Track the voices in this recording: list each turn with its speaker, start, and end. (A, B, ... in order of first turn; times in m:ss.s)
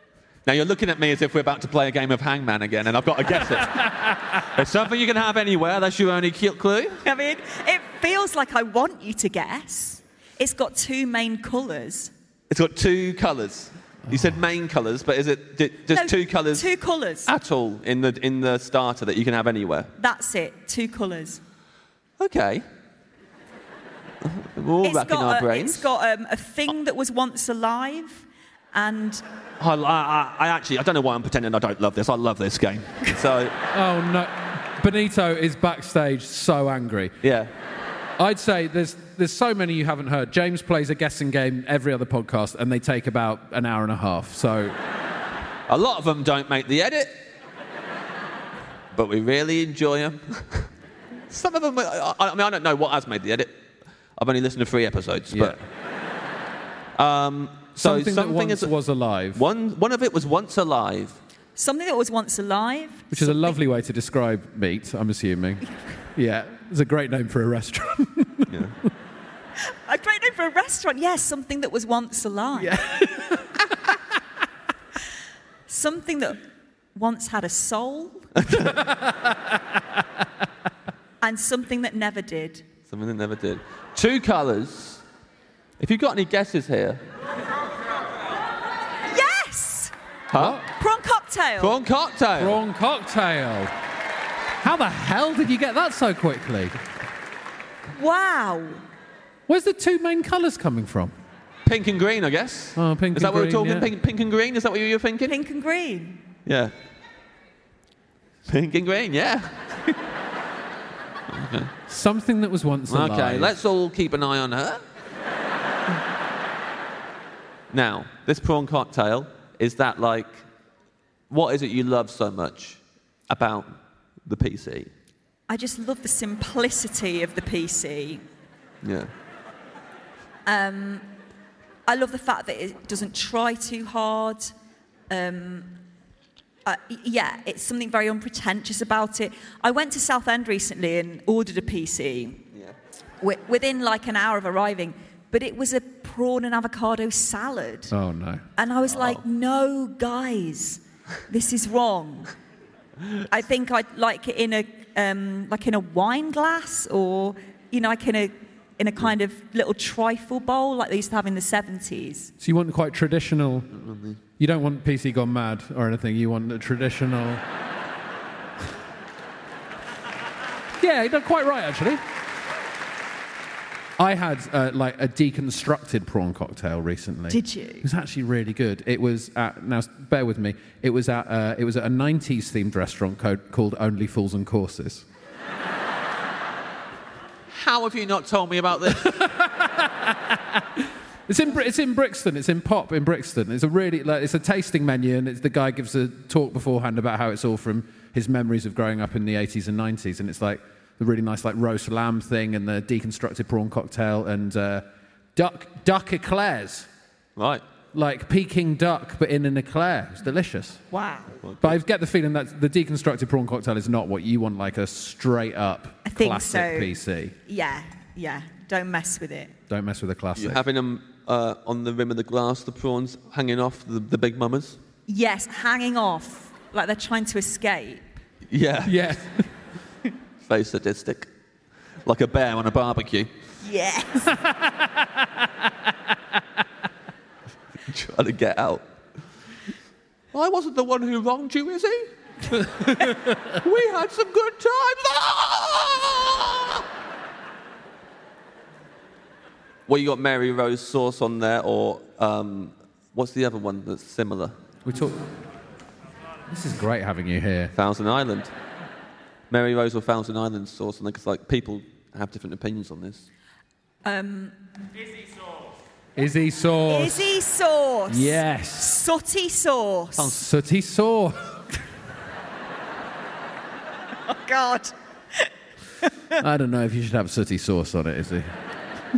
0:00.4-0:07.0 A
0:07.0-0:12.1 B
0:12.5-0:16.7 A
0:15.9-0:17.3 B
0:17.2-0:19.9 A
0:20.0-0:21.4 B
0:22.2-0:22.6 A
0:24.2-0:25.9 A
0:24.8-0:29.2 B
0:29.6-0:33.5 A
0:33.7-0:37.1 C
0:37.2-0:37.5 A
0:38.2-0:44.8 C
0:45.7-0:47.1 A
0:48.9-0:50.7 A
0:51.3-0:53.5 A
0:54.2-0:55.6 A
0:55.3-0:55.6 C
0:57.0-0:58.7 A
0:57.8-0:59.4 C
0:59.3-1:01.2 A
1:01.6-1:03.6 B
1:03.1-1:08.5 C
1:08.5-1:08.7 A
1:09.8-1:12.9 B
1:12.6-1:13.4 C
1:15.7-1:16.4 B
1:16.9-1:18.3 B
1:18.4-1:18.8 A
1:21.2-1:22.6 B
1:22.9-1:25.0 A
1:25.8-1:27.0 A
1:29.1-1:29.9 B
1:30.3-1:30.6 A
1:30.3-1:30.6 C
1:30.7-1:31.8 B
1:31.6-1:32.6 A
1:32.4-1:33.7 C
1:34.6-1:36.7 C
1:37.9-1:38.8 B
1:39.5-1:41.1 C
1:41.6-1:45.4 A
1:42.8-1:43.9 C
1:45.3-1:46.2 B
1:46.4-1:46.7 A
1:48.5-1:49.5 A
1:51.3-1:51.7 A
1:51.9-1:53.5 C
1:52.9-1:54.8 A
1:57.7-2:00.4 A
2:01.3-2:04.9 A
2:05.5-2:08.2 B
2:08.8-2:09.1 A
2:10.4-2:11.1 B
2:11.9-2:14.5 B
2:15.1-2:15.8 B
2:16.6-2:22.4 B
2:23.2-2:27.9 B
2:27.9-2:28.4 C
2:28.6-2:32.3 B
2:28.9-2:29.2 A
2:33.3-2:42.3 B
2:42.4-2:43.7 C
2:43.7-2:44.2 A
2:44.4-2:47.4 C
2:50.8-2:52.0 C
2:54.0-3:05.0 C
2:57.3-2:57.8 B
3:07.5-3:09.2 A
3:09.0-3:26.9 C
3:27.4-3:27.6 A
3:27.9-3:30.8 C
3:30.9-3:31.4 B
3:31.4-3:31.8 A
3:31.6-3:37.3 C
3:36.0-3:36.9 B
3:37.4-3:39.5 B
3:39.7-3:40.6 C
3:40.4-3:44.8 A
3:45.1-3:48.1 B
3:48.5-3:49.1 A
3:48.8-3:49.4 C
3:50.4-3:51.3 A
3:52.0-3:53.3 A
3:53.6-3:54.3 B
3:54.4-3:55.1 C
3:57.9-3:58.8 A
4:00.3-4:02.1 A
4:03.5-4:06.8 A
4:09.9-4:14.5 A
4:14.8-4:15.2 C
4:16.5-4:17.7 C
4:17.7-4:18.5 A
4:19.5-4:23.3 A
4:24.0-4:24.5 B
4:26.2-4:27.3 C
4:26.9-4:30.4 B
4:28.1-4:29.0 C
4:30.2-4:31.4 C
4:34.2-4:35.5 B
4:36.4-4:38.5 C